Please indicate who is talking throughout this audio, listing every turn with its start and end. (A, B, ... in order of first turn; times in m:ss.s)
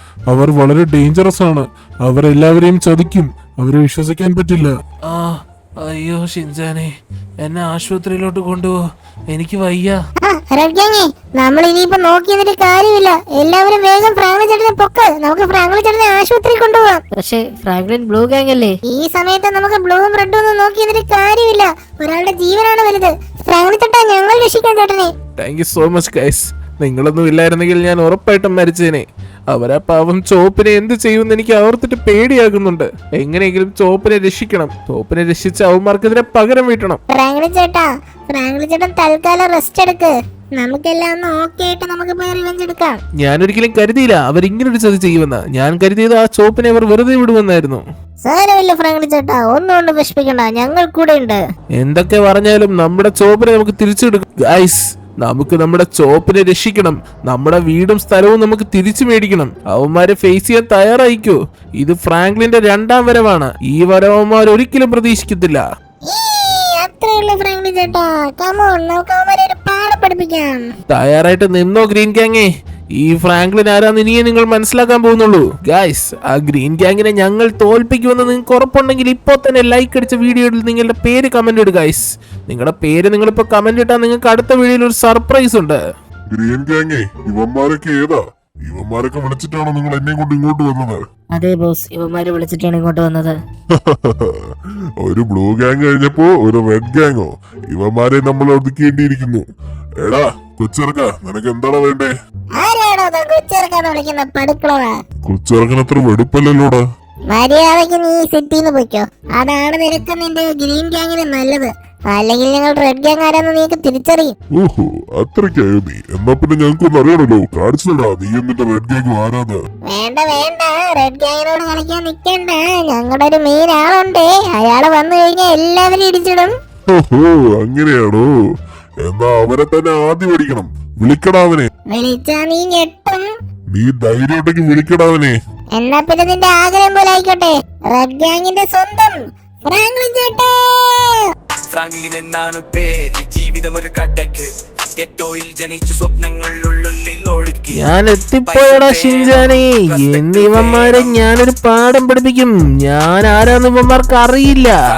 0:00.3-0:03.0 A
0:00.5-0:01.6 B
0:02.2-0:04.8 B
0:05.1-0:06.9 A
0:07.4-0:08.8 A
0:09.3-0:10.0 A
0:10.2-0:17.0 C
0:17.2-0:18.7 A
0:17.2-0:17.5 D
0:18.9-0:25.1 C
0:25.4-0:37.0 A
0:37.1-0:43.0 C
0:43.2-0:47.8 A
0:48.2-0:49.2 C
0:51.8-1:05.6 A
1:06.1-1:10.7 C
1:10.9-1:25.8 A
1:26.3-1:31.0 B
1:31.3-1:33.3 D
1:33.8-1:34.4 B
1:35.0-1:39.4 B
1:40.0-1:42.1 B
1:42.6-1:45.0 C
1:45.3-1:46.8 B
1:47.3-1:54.4 C
1:54.6-1:59.6 B
1:59.9-2:06.6 C
2:06.9-2:08.3 B
2:09.0-2:11.7 B
2:11.9-2:13.3 C
2:13.7-2:15.3 B
2:15.8-2:21.2 C
2:21.7-2:27.7 E
2:27.7-2:34.8 A